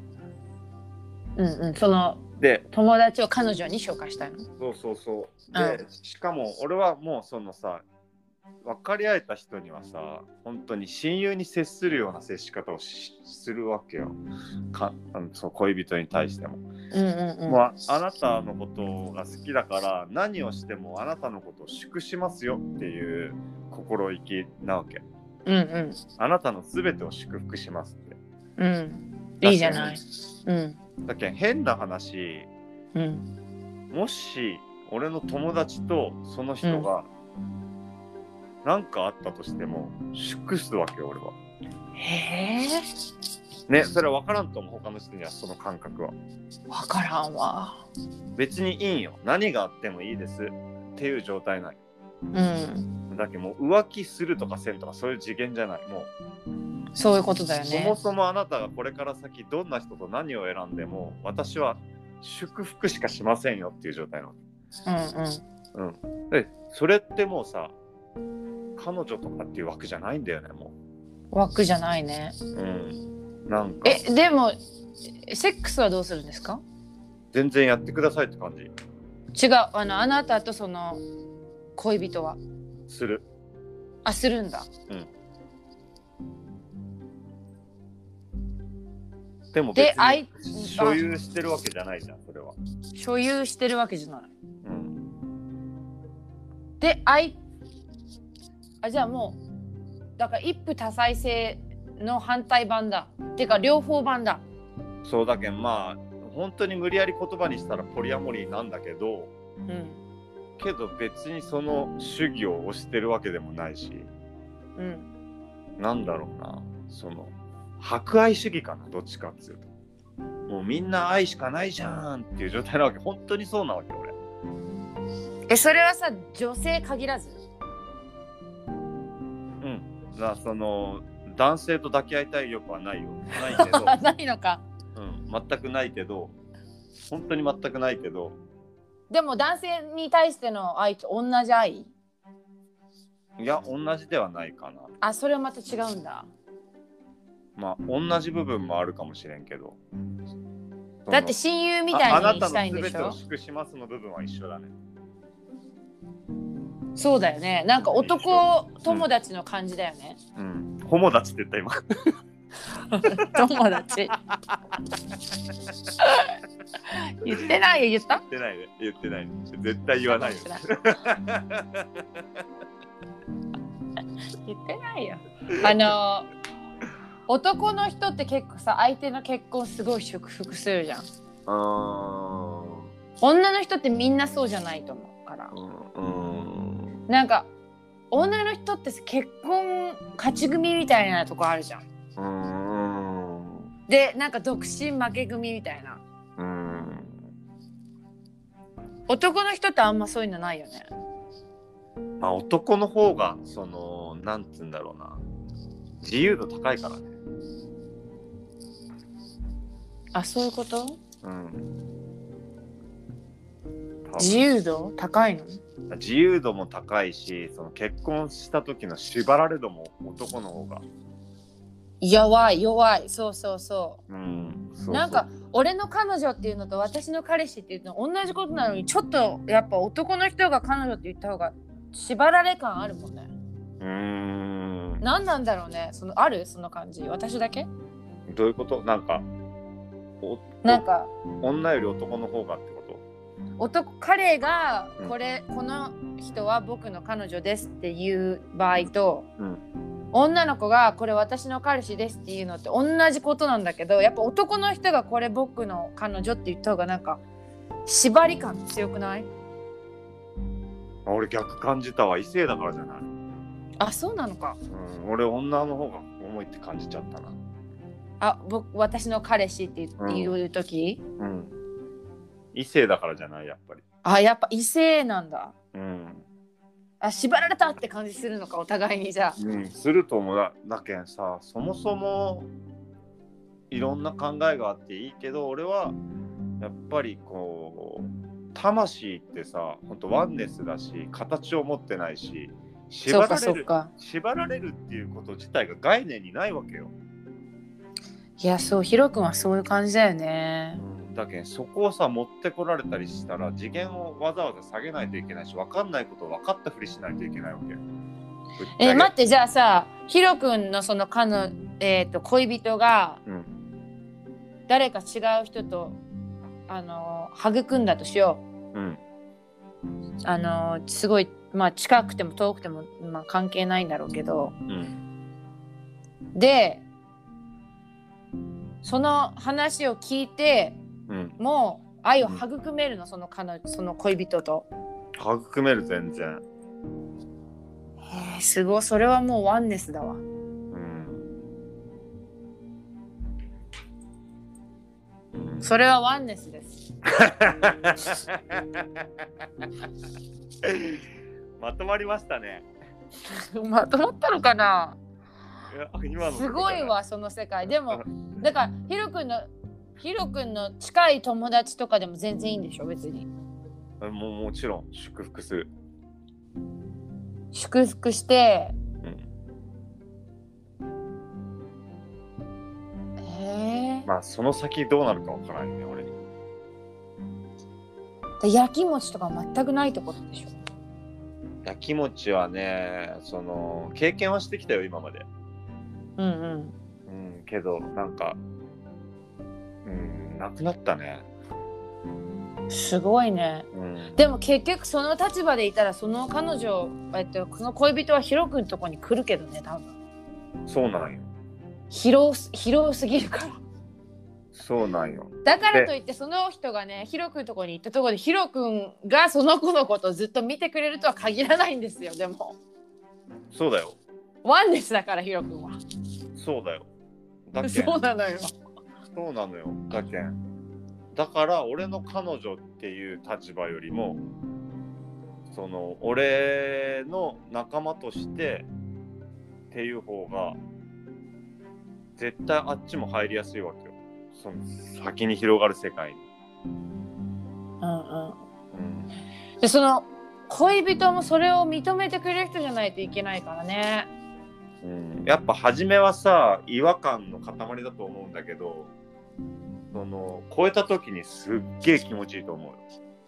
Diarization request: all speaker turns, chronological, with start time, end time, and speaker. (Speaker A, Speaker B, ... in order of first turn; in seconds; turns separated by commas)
Speaker A: 1.4-4.5, Speaker B: 2.4-2.7, Speaker B: 4.6-7.8, Speaker A: 5.5-5.8, Speaker B: 8.6-14.2, Speaker B: 14.7-16.6, Speaker A: 16.9-17.6, Speaker B: 17.5-25.0, Speaker A: 25.5-26.0, Speaker B: 26.2-28.2, Speaker A: 28.6-30.8, Speaker B: 29.4-30.0, Speaker B: 31.1-32.5, Speaker A: 33.0-33.2, Speaker B: 33.9-37.1, Speaker B: 38.6-41.4, Speaker A: 42.0-42.8, Speaker B: 43.7-46.1, Speaker A: 46.7-47.9, Speaker B: 48.4-51.8, Speaker A: 52.3-52.9, Speaker B: 53.1-56.1, Speaker A: 57.0-58.0, Speaker B: 57.7-64.4, Speaker A: 64.9-65.4, Speaker B: 65.8-67.8, Speaker B: 68.8-70.8, Speaker A: 71.3-72.4, Speaker B: 72.5-74.0, Speaker A: 73.8-74.5, Speaker A: 75.2-76.6, Speaker B: 77.3-78.7, Speaker A: 79.3-81.0, Speaker A: 81.8-82.4, Speaker B: 82.9-83.2, Speaker A: 84.0-84.7, Speaker B: 89.5-92.6, Speaker A: 89.8-91.0, Speaker A: 93.0-94.3, Speaker B: 94.6-95.0, Speaker A: 96.8-97.4, Speaker A: 98.8-99.4, Speaker A: 100.2-104.4, Speaker B: 105.0-109.3, Speaker A: 109.7-110.0, Speaker B: 110.6-114.1, Speaker A: 114.8-115.1, Speaker B: 115.8-119.7, Speaker B: 120.5-124.2, Speaker A: 125.5-127.4, Speaker B: 129.6-134.0, Speaker A: 133.4-134.6, Speaker B: 134.9-136.3, Speaker B: 137.1-138.4, Speaker A: 139.1-141.9, Speaker B: 143.4-144.9, Speaker A: 145.0-146.3, Speaker B: 147.6-149.8, Speaker B: 151.1-151.3, Speaker A: 151.1-153.2, Speaker B: 151.9-154.7, Speaker A: 156.9-160.2, Speaker B: 158.0-159.1, Speaker B: 160.4-162.1, Speaker A: 162.9-164.1, Speaker A: 166.0-166.3, Speaker A: 167.2-168.2, Speaker B: 168.1-172.0, Speaker A: 170.1-170.6, Speaker A: 174.4-176.3, Speaker B: 175.6-175.9, Speaker A: 177.3-181.1, Speaker B: 181.5-182.9, Speaker A: 183.2-185.5, Speaker B: 185.5-187.0, Speaker A: 187.1-187.5, Speaker A: 188.1-191.8, Speaker B: 192.2-193.7, Speaker A: 193.9-196.0, Speaker B: 196.4-197.2, Speaker A: 199.1-200.9, Speaker B: 202.2-205.2, Speaker B: 206.0-207.1, Speaker A: 210.1-211.0, Speaker B: 211.2-211.7, Speaker B: 214.1-214.5, Speaker A: 214.2-215.6, Speaker B: 215.9-220.8, Speaker A: 222.0-224.0, Speaker B: 224.1-225.2, Speaker A: 224.9-233.3, Speaker B: 233.8-235.0, Speaker A: 235.0-237.7, Speaker B: 238.3-239.3, Speaker B: 240.2-240.8, Speaker A: 240.6-241.1, Speaker B: 241.4-243.0, Speaker A: 243.6-249.3, Speaker B: 248.8-249.6, Speaker A: 250.1-257.2, Speaker A: 257.9-259.3, Speaker B: 261.1-263.1, Speaker A: 263.8-264.6, Speaker B: 264.7-267.4, Speaker A: 268.2-271.0, Speaker B: 270.0-270.4, Speaker B: 271.2-271.6, Speaker B: 272.5-273.8, Speaker A: 274.0-275.5, Speaker B: 275.7-276.3, Speaker A: 277.0-279.4, Speaker B: 279.4-282.5, Speaker B: 283.7-286.0, Speaker B: 286.6-296.9, Speaker A: 293.1-293.9, Speaker A: 298.4-300.8, Speaker B: 300.8-307.8, Speaker B: 308.6-309.1, Speaker A: 308.8-313.2, Speaker B: 313.3-313.6, Speaker A: 314.7-316.0, Speaker A: 316.7-318.4, Speaker B: 318.7-319.0, Speaker A: 320.3-324.6, Speaker B: 324.7-325.0, Speaker A: 326.4-326.9, Speaker A: 328.8-330.8, Speaker B: 331.1-331.4, Speaker A: 331.4-334.7, Speaker B: 335.2-336.4, Speaker A: 338.1-340.2, Speaker B: 340.7-341.3, Speaker B: 345.3-345.7, Speaker A: 345.6-346.8, Speaker B: 347.2-349.0, Speaker B: 350.6-351.0, Speaker B: 351.6-352.7, Speaker A: 353.3-355.0, Speaker B: 355.7-356.9, Speaker A: 356.2-359.5, Speaker A: 360.0-363.3, Speaker B: 364.0-365.7, Speaker A: 367.5-368.8, Speaker B: 369.0-369.3, Speaker A: 373.2-374.1, Speaker B: 374.1-376.1, Speaker A: 378.4-380.6, Speaker B: 381.6-385.3, Speaker A: 386.2-386.8, Speaker B: 387.1-388.4, Speaker B: 389.9-391.3, Speaker A: 392.7-399.9, Speaker B: 393.7-394.2, Speaker B: 400.7-401.3, Speaker A: 401.9-403.6, Speaker B: 404.5-405.9, Speaker A: 405.4-412.6, Speaker B: 413.5-414.0, Speaker A: 414.4-415.8, Speaker B: 416.4-416.9, Speaker B: 417.5-418.0, Speaker A: 417.6-418.5, Speaker B: 419.1-420.4, Speaker B: 421.1-424.2, Speaker B: 425.5-428.7, Speaker B: 429.7-430.6, Speaker B: 432.2-436.2, Speaker A: 437.8-438.4, Speaker B: 438.7-439.1, Speaker A: 439.6-444.1, Speaker B: 444.8-448.9, Speaker B: 449.9-452.8